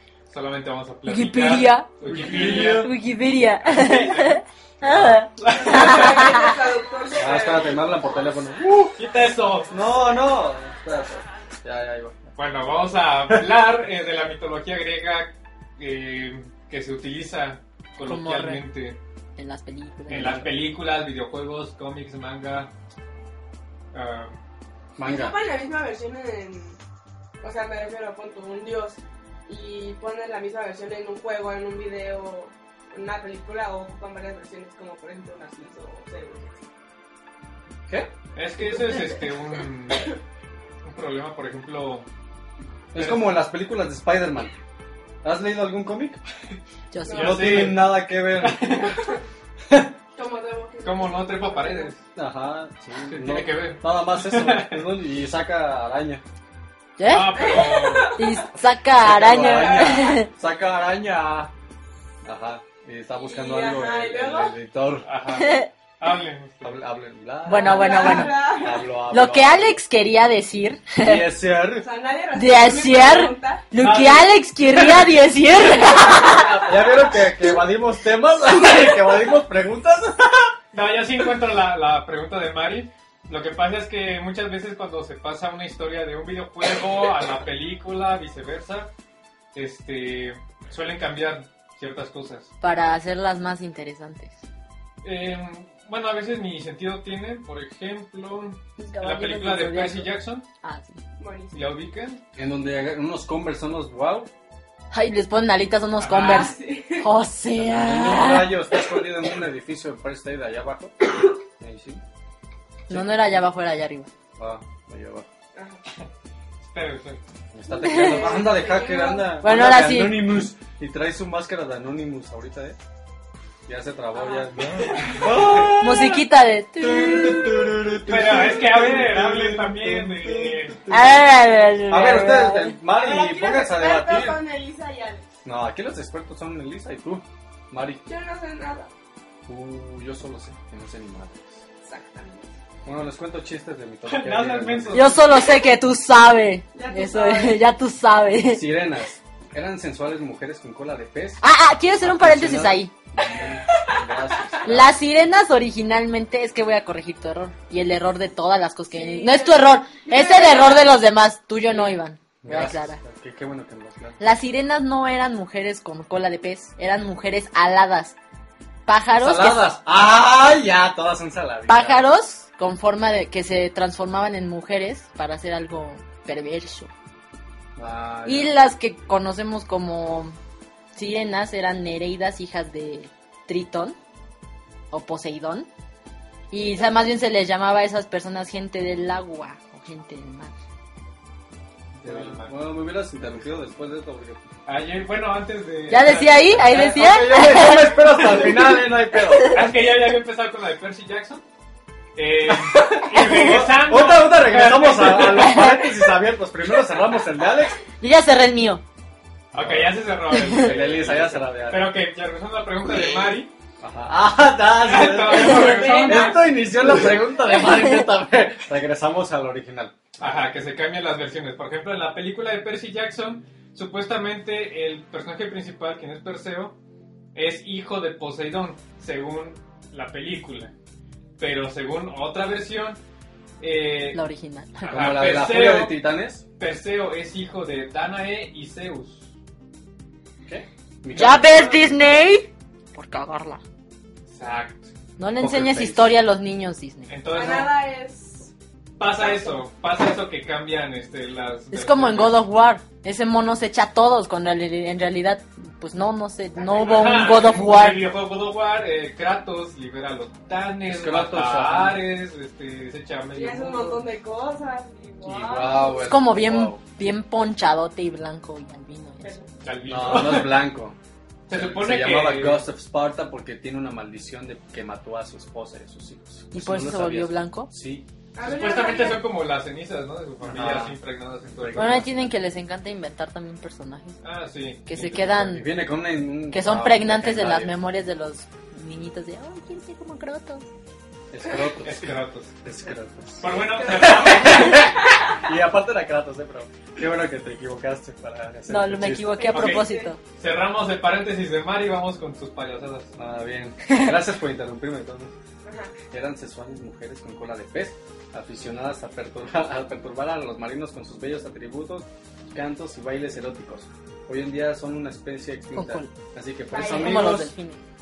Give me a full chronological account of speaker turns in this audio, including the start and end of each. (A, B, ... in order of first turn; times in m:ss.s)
0:00.3-0:02.9 A
0:01.0-0:06.5 B
0:02.0-0:02.9 C
0:03.6-0:06.3 A
0:04.8-0:05.2 C
0:05.6-0:08.0 D
0:07.1-0:09.0 C
0:08.9-0:09.7 A
0:09.6-0:12.3 C
0:12.4-0:19.0 A
0:18.0-0:18.6 B
0:19.4-0:20.5 B
0:20.1-0:22.7 A
0:23.9-0:24.4 A
0:25.0-0:25.4 C
0:25.0-0:26.8 D
0:27.4-0:36.6 D
0:38.3-0:40.2 A
0:40.8-0:42.1 A
0:42.9-0:44.6 C
0:42.9-0:43.3 A
0:45.2-0:46.2 C
0:46.9-0:47.6 B
0:47.0-0:47.6 D
0:47.1-0:49.0 A
0:47.2-0:48.7 C
0:50.2-0:51.9 D
0:50.8-0:52.0 A
0:52.1-0:56.2 C
0:53.1-0:54.9 A
0:57.0-1:00.3 B
0:57.0-0:58.2 A
0:57.3-0:58.4 D
0:59.0-1:01.5 C
0:59.4-1:00.1 D
1:02.2-1:05.1 C
1:03.2-1:04.5 D
1:05.0-1:06.7 A
1:05.4-1:05.7 B
1:06.6-1:09.8 C
1:07.4-1:08.6 B
1:07.5-1:08.8 D
1:09.1-1:11.2 B
1:11.0-1:11.9 C
1:11.8-1:13.6 D
1:12.3-1:16.5 B
1:13.8-1:15.0 A
1:16.1-1:20.5 C
1:20.7-1:28.9 A
1:29.5-1:32.5 A
1:32.6-1:34.4 B
1:35.0-1:40.4 A
1:38.8-1:40.1 B
1:40.6-1:41.0 B
1:41.2-1:41.6 D
1:41.5-1:42.2 A
1:42.3-1:44.3 C
1:44.9-1:48.6 B
1:46.0-1:46.5 A
1:46.1-1:47.1 D
1:47.6-1:51.0 C
1:51.6-1:52.0 C
1:52.9-1:54.1 B
1:54.4-1:55.3 C
1:55.5-1:55.8 D
1:56.6-1:57.2 A
1:57.5-2:02.8 C
1:57.8-1:58.4 B
1:57.9-1:59.4 D
1:59.4-2:00.3 B
2:03.6-2:06.2 C
2:04.1-2:05.2 D
2:04.8-2:05.7 A
2:05.8-2:07.7 B
2:06.8-2:11.2 C
2:08.0-2:10.8 A
2:10.9-2:12.8 B
2:11.9-2:14.4 C
2:12.9-2:15.3 D
2:15.4-2:18.0 C
2:18.0-2:18.9 D
2:19.5-2:21.6 C
2:21.8-2:22.5 D
2:22.8-2:25.2 C
2:24.0-2:25.4 A
2:24.9-2:28.7 B
2:26.7-2:27.6 D
2:28.5-2:31.4 C
2:31.4-2:32.9 B
2:32.0-2:34.9 C
2:33.3-2:34.0 D
2:34.6-2:43.0 B
2:38.9-2:40.9 D
2:42.4-2:44.2 C
2:44.2-2:48.2 B
2:48.9-2:49.7 B
2:49.2-2:52.0 C
2:51.7-2:56.9 B
2:57.8-2:58.5 C
2:58.2-3:00.4 B
3:00.9-3:04.0 B
3:04.9-3:05.7 B
3:06.5-3:10.5 B
3:11.9-3:12.5 A
3:12.0-3:14.4 C
3:14.6-3:16.9 A
3:15.9-3:18.1 B
3:16.7-3:19.6 C
3:19.5-3:21.4 A
3:22.2-3:25.6 A
3:22.5-3:27.8 C
3:25.4-3:25.9 B
3:28.0-3:28.8 B
3:29.5-3:33.5 A
3:29.5-3:31.9 C
3:30.4-3:30.6 B
3:33.8-3:40.0 C
3:34.8-3:36.5 A
3:35.6-3:36.0 B
3:35.7-3:36.3 D
3:40.2-3:46.8 A
3:47.3-3:50.7 A
3:51.4-3:53.0 A
3:53.6-3:54.2 A
3:54.1-3:55.1 B
3:54.8-3:56.0 A
3:54.9-3:56.4 C
3:56.6-3:59.3 A
4:00.4-4:01.8 C
4:01.1-4:03.6 B
4:04.3-4:04.9 A
4:05.2-4:07.1 B
4:05.4-4:06.1 C
4:07.1-4:07.7 A
4:07.3-4:08.5 D
4:09.0-4:12.4 A
4:09.1-4:09.6 D
4:11.7-4:18.0 B
4:16.7-4:24.1 A
4:20.8-4:22.0 C
4:23.3-4:26.1 D
4:25.2-4:26.8 C
4:26.0-4:29.4 B
4:29.2-4:29.5 D
4:29.6-4:30.7 A
4:29.8-4:31.0 C
4:31.5-4:32.6 A
4:31.5-4:38.0 C
4:36.5-4:37.7 B
4:38.3-4:39.2 D
4:38.4-4:42.0 A
4:40.4-4:41.0 C
4:41.5-4:42.3 C
4:41.7-4:44.2 B
4:44.2-4:45.6 A
4:44.8-4:45.7 B
4:45.5-4:47.7 C
4:46.5-4:50.7 B
4:51.3-4:59.4 C
4:51.8-4:52.5 A
4:53.4-4:54.9 A
4:53.8-4:55.3 D
4:58.7-5:00.2 B
4:59.3-5:00.1 D
4:59.5-5:03.1 A
5:03.2-5:05.3 C
5:05.6-5:05.9 D
5:06.1-5:17.5 C
5:15.7-5:16.1 B
5:16.7-5:17.4 D
5:16.8-5:17.8 B